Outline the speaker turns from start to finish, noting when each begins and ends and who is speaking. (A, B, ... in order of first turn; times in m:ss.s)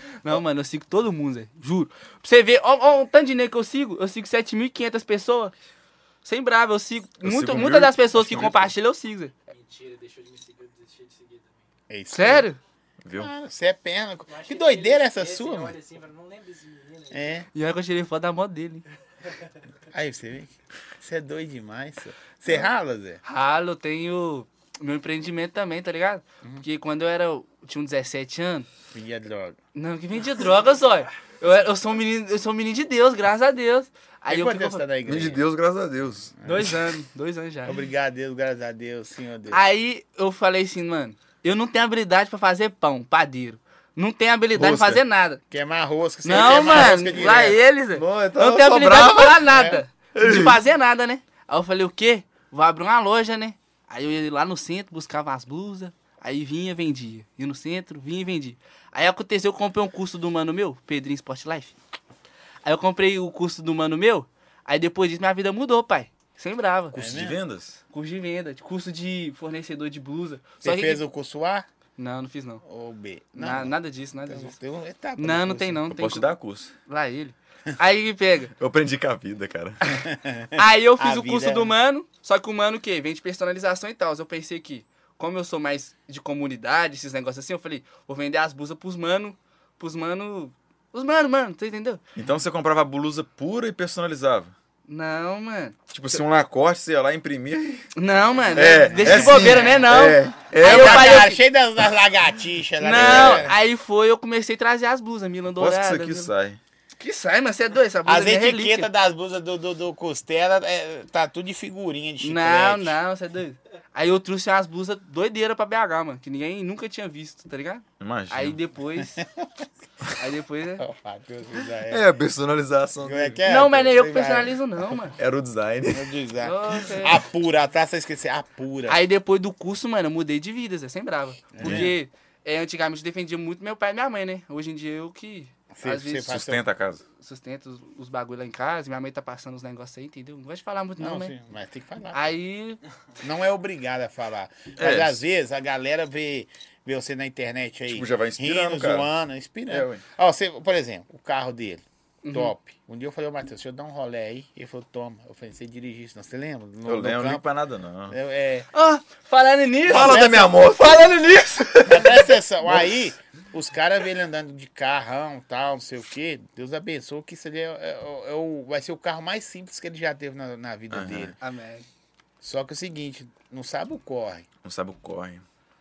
0:00.2-0:05.5 A
0:06.2-0:09.3 A
0:07.2-0:08.7 B
0:09.5-0:11.7 C
0:11.9-0:12.5 D
0:12.1-0:12.6 A
0:13.0-0:13.3 B
0:13.1-0:15.8 D
0:14.3-0:17.3 C
0:17.1-0:17.5 D
0:17.5-0:18.8 A
0:19.9-0:23.2 D
0:23.2-0:28.7 A
0:28.9-0:29.6 D
0:29.7-0:34.8 A
0:34.3-0:35.4 D
0:35.0-0:36.7 B
0:36.4-0:36.8 D
0:36.4-0:37.8 A
0:37.6-0:39.6 D
0:39.5-0:45.4 A
0:44.6-0:45.0 B
0:45.5-0:47.6 D
0:46.2-1:01.7 A
0:46.3-0:47.1 B
0:47.9-0:49.4 B
0:49.5-0:49.8 D
0:50.1-0:50.6 B
1:02.6-1:07.0 A
1:06.9-1:07.4 D
1:06.9-1:07.8 B
1:07.9-1:11.0 A
1:10.6-1:11.7 D
1:12.0-1:12.6 A
1:12.6-1:13.7 D
1:13.4-1:14.6 A
1:14.2-1:15.8 D
1:15.2-1:16.3 A
1:15.9-1:16.7 B
1:16.9-1:18.5 A
1:18.6-1:20.0 B
1:19.9-1:21.7 D
1:20.6-1:32.0 A
1:32.2-1:34.5 B
1:34.9-1:35.8 A
1:35.9-1:37.9 B
1:37.9-1:41.4 A
1:38.5-1:41.3 B
1:38.9-1:39.8 D
1:40.6-1:43.6 D
1:42.8-1:46.3 A
1:42.9-1:43.5 B
1:45.6-1:46.6 B
1:47.0-1:48.9 A
1:48.0-1:53.0 D
1:52.2-1:59.2 A
1:58.0-1:58.6 B
1:59.2-1:59.6 D
2:00.2-2:00.8 A
2:00.8-2:02.0 D
2:01.8-2:03.4 B
2:03.0-2:04.6 D
2:03.4-2:05.1 A
2:05.1-2:06.1 B
2:05.9-2:09.0 D
2:06.4-2:07.2 A
2:08.9-2:16.4 A
2:11.5-2:11.9 D
2:11.6-2:11.9 B
2:15.7-2:16.7 D
2:16.3-2:17.0 B
2:17.2-2:21.3 A
2:21.0-2:22.3 D
2:22.1-2:22.8 A
2:23.2-2:37.4 D
2:24.8-2:25.2 B
2:27.9-2:29.1 B
2:29.7-2:30.0 B
2:32.2-2:32.5 A
2:36.9-2:38.2 B
2:38.1-2:38.7 D
2:38.7-2:41.8 A
2:39.9-2:42.9 B
2:39.9-2:40.6 D
2:41.9-2:51.4 D
2:50.9-2:51.4 B
2:51.4-2:51.9 A
2:52.4-2:54.5 D
2:54.6-2:55.4 B